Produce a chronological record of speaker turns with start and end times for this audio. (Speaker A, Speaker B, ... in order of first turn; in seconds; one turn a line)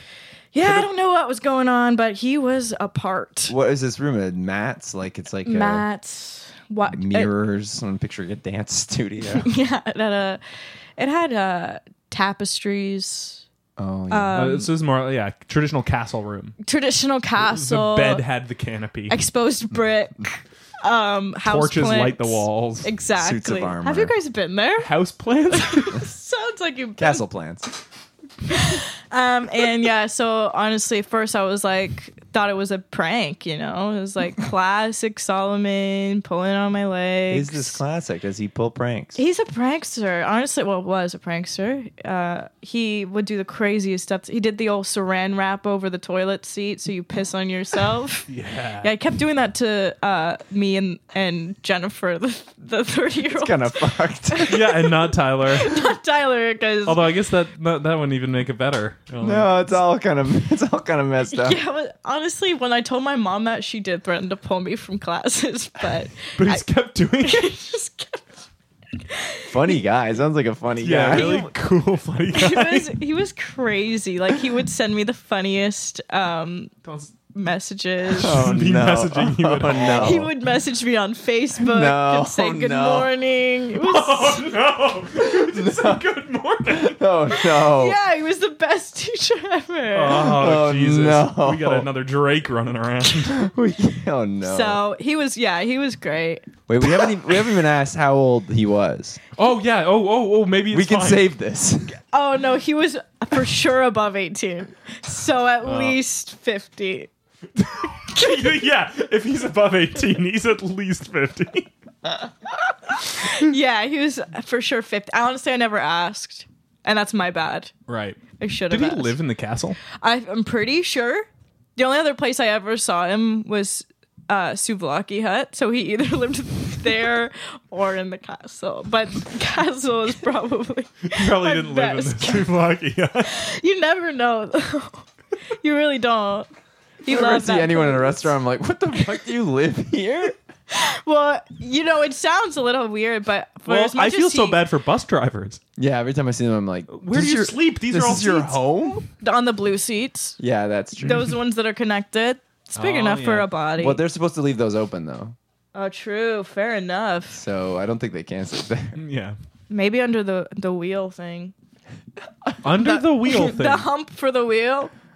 Speaker A: 0.5-3.5
Speaker B: 3.5-5.8
Speaker A: 5.5-7.3
Speaker B: 6.9-9.5
Speaker A: 9.4-10.4
Speaker A: 11.0-13.4
Speaker B: 13.8-14.5
Speaker A: 14.1-14.7
Speaker C: 14.3-16.6
Speaker A: 16.6-18.2
Speaker C: 17.4-19.2
Speaker A: 19.1-24.9
Speaker C: 21.4-22.9
Speaker B: 23.2-24.1
Speaker C: 24.8-26.0
Speaker A: 25.5-27.2
Speaker B: 27.0-27.7
Speaker A: 28.5-37.8
Speaker B: 37.3-39.2
Speaker A: 39.1-48.3
Speaker C: 48.3-48.9
Speaker A: 48.8-57.0
Speaker B: 53.3-54.6
Speaker C: 54.5-55.8
Speaker C: 56.8-59.6
Speaker B: 59.2-61.6
Speaker A: 61.3-66.6
Speaker C: 66.3-67.5
Speaker A: 67.2-68.3
Speaker A: 69.1-69.5
Speaker B: 69.5-71.5
Speaker C: 70.8-73.0
Speaker A: 71.1-71.5
Speaker A: 72.3-76.7
Speaker C: 76.8-77.1
Speaker A: 77.3-78.4
Speaker C: 78.2-80.3
Speaker B: 78.2-80.3
Speaker A: 79.8-84.5
Speaker B: 81.6-83.1
Speaker C: 83.8-87.0
Speaker B: 85.3-86.0
Speaker B: 86.7-88.0
Speaker A: 87.4-90.4
Speaker C: 89.9-93.5
Speaker B: 90.1-91.9
Speaker B: 93.2-94.8
Speaker A: 94.4-96.5
Speaker B: 96.7-99.2
Speaker C: 99.4-101.3
Speaker B: 100.7-101.9
Speaker A: 102.1-107.1
Speaker C: 105.6-106.0
Speaker C: 107.6-111.7
Speaker A: 113.0-117.7
Speaker C: 117.9-119.8
Speaker A: 118.4-119.2
Speaker A: 119.9-132.6
Speaker C: 131.1-133.4
Speaker A: 133.3-135.1
Speaker A: 135.6-136.5
Speaker A: 137.0-138.3
Speaker B: 137.1-140.3
Speaker A: 140.7-144.6
Speaker C: 143.7-145.6
Speaker B: 145.8-149.0
Speaker C: 146.9-149.0
Speaker A: 149.2-150.4
Speaker B: 150.4-151.3
Speaker A: 151.0-154.0
Speaker C: 152.8-153.5
Speaker B: 153.8-155.3
Speaker A: 155.7-157.4
Speaker B: 157.3-159.0
Speaker C: 158.9-159.4
Speaker A: 159.7-161.5
Speaker C: 162.6-163.8
Speaker A: 162.7-164.9